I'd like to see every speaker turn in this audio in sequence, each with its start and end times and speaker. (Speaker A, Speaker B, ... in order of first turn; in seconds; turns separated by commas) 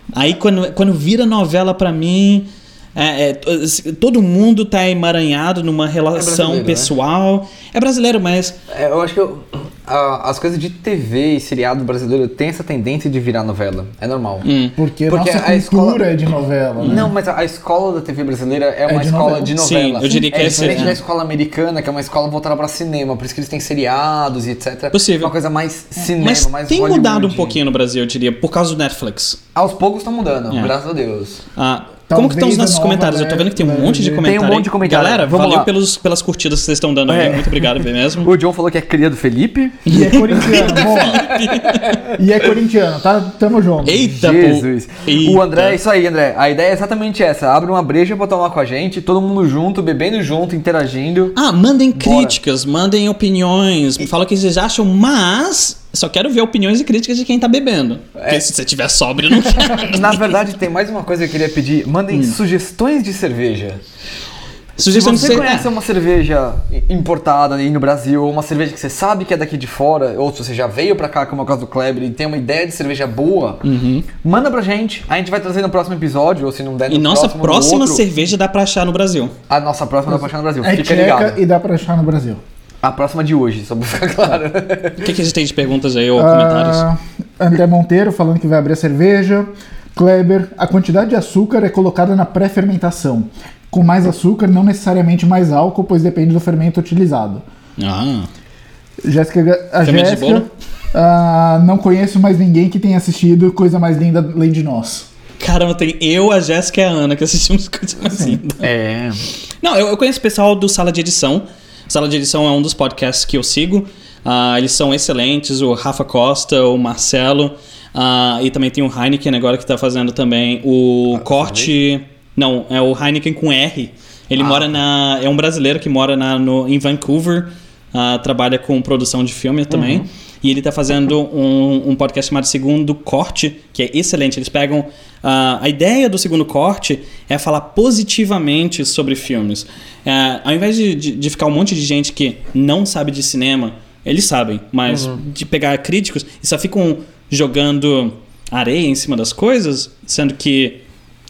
Speaker A: 0.1-8.6, Speaker B: 6.1-6.9, Speaker B: 8.7-14.5, Speaker A: 14.4-14.8, Speaker C: 14.8-17.1, Speaker B: 15.1-16.0, Speaker B: 16.8-27.6, Speaker C: 18.9-21.0, Speaker A: 19.6-21.0, Speaker A: 24.9-25.3, Speaker A: 26.0-29.4, Speaker B: 29.5-31.4, Speaker A: 31.5-38.3, Speaker C: 32.1-34.3, Speaker B: 34.2-35.7, Speaker B: 37.1-42.1, Speaker A: 39.9-42.0, Speaker C: 39.9-41.3, Speaker C: 42.1-44.1, Speaker A: 43.8-45.8, Speaker B: 44.1-51.3, Speaker A: 51.3-60.2, Speaker B: 52.0-52.4, Speaker B: 58.1-58.4, Speaker B: 59.5-63.8, Speaker A: 64.8-65.7, Speaker B: 64.9-73.6, Speaker A: 73.6-74.1, Speaker B: 74.2-78.0, Speaker A: 76.9-79.3, Speaker B: 79.5-81.4, Speaker C: 80.1-82.4, Speaker B: 82.8-85.0, Speaker A: 85.0-86.8, Speaker C: 86.2-97.4, Speaker A: 97.8-98.3, Speaker C: 99.0-105.1, Speaker A: 99.8-100.5, Speaker A: 105.4-108.6, Speaker C: 108.0-108.4, Speaker B: 108.6-109.2, Speaker A: 109.6-150.8, Speaker B: 121.1-121.7, Speaker B: 124.4-124.7, Speaker B: 129.7-130.1, Speaker B: 144.9-145.2